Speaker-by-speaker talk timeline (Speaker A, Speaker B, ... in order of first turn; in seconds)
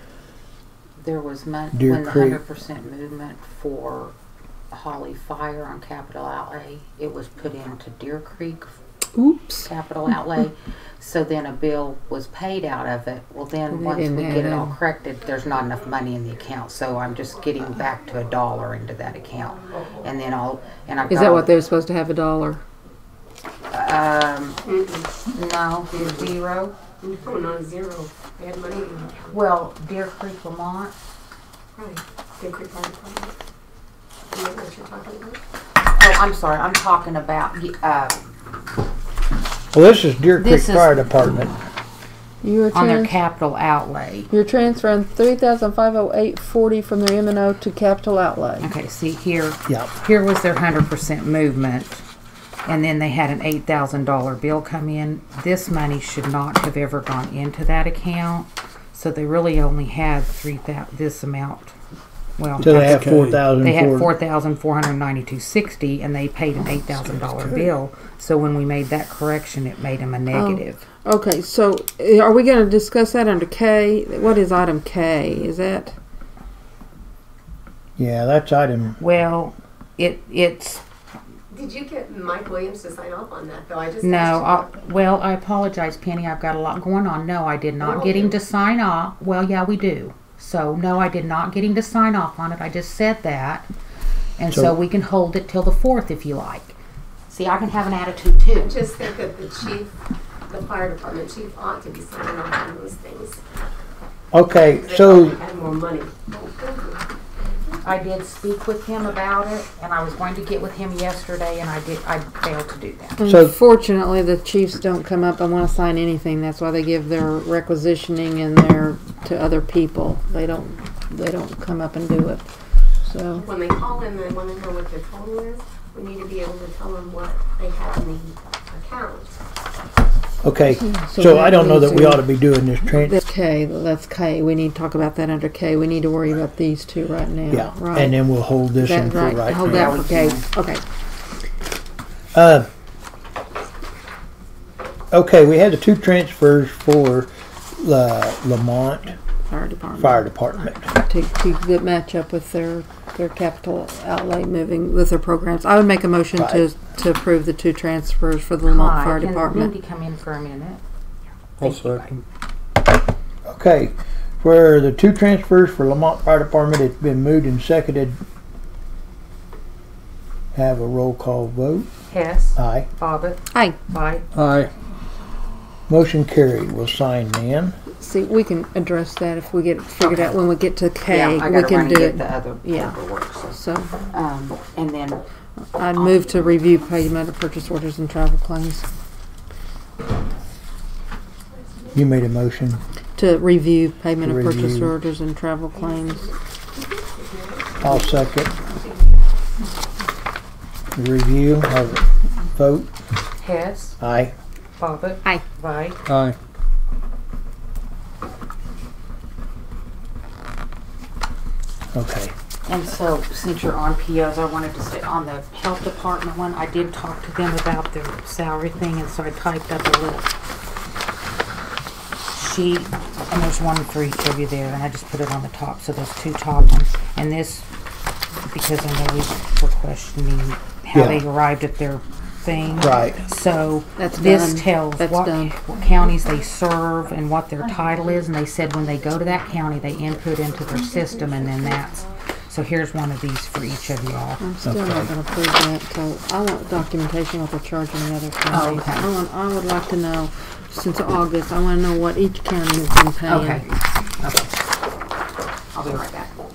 Speaker A: 1.0-4.1, 4.7-8.8, 9.6-21.5, 23.7-24.6, 25.3-26.7, 29.3-30.9, 35.9-38.3, 40.4-41.3, 42.7-44.3, 48.6-52.0, 52.6-61.8, 62.4-70.8, 79.0-80.8, 84.0-93.7, 94.4-96.8, 97.3-98.7, 107.8-113.2, 139.6-140.5, 158.7-160.8, 161.6-162.2, 172.1-174.2, 179.9-180.4, 181.1-185.2, 185.9-186.4, 203.4-204.0, 204.8-206.0, 212.7-220.3, 222.3-227.7, 228.5-244.4, 248.5-249.1, 253.3-254.5, 255.7-256.4
Speaker B: 1.7-2.4, 39.7-41.5, 62.6-64.1, 78.0-79.0, 94.5-94.8, 104.3-105.3, 113.2-113.6, 130.4-133.2, 137.5-140.0, 142.3-142.7, 145.1-149.2, 150.0-150.9, 156.3-156.7, 163.4-168.2, 170.5-171.9, 172.6-172.9, 175.9-177.7, 191.9-192.8, 194.2-194.9, 197.8-198.5, 200.9-202.9, 204.0-204.3, 211.9-212.3, 230.9-231.2, 232.8-233.2, 244.6-245.1
Speaker C: 9.1-9.7, 13.7-14.8, 21.1-22.6, 42.4-43.2, 44.3-48.7, 70.3-76.0, 113.2-122.5, 123.0-123.5, 130.8-132.2, 132.9-138.1, 138.8-140.8, 149.5-150.3, 150.9-159.7, 178.0-182.9, 183.5-184.0, 185.8-188.8, 193.2-196.3, 234.0-235.5, 244.4-253.7
Speaker D: 24.6-25.1, 25.9-26.3, 27.0-29.4, 31.7-33.3, 34.3-35.4, 81.5-84.7, 87.8-88.3, 98.6-99.9, 100.5-103.4, 104.8-107.8, 123.3-129.4, 191.6-191.9, 195.7-199.2, 240.3-242.2
Speaker E: 62.6-63.4, 161.6-162.0, 174.3-174.7, 206.1-206.4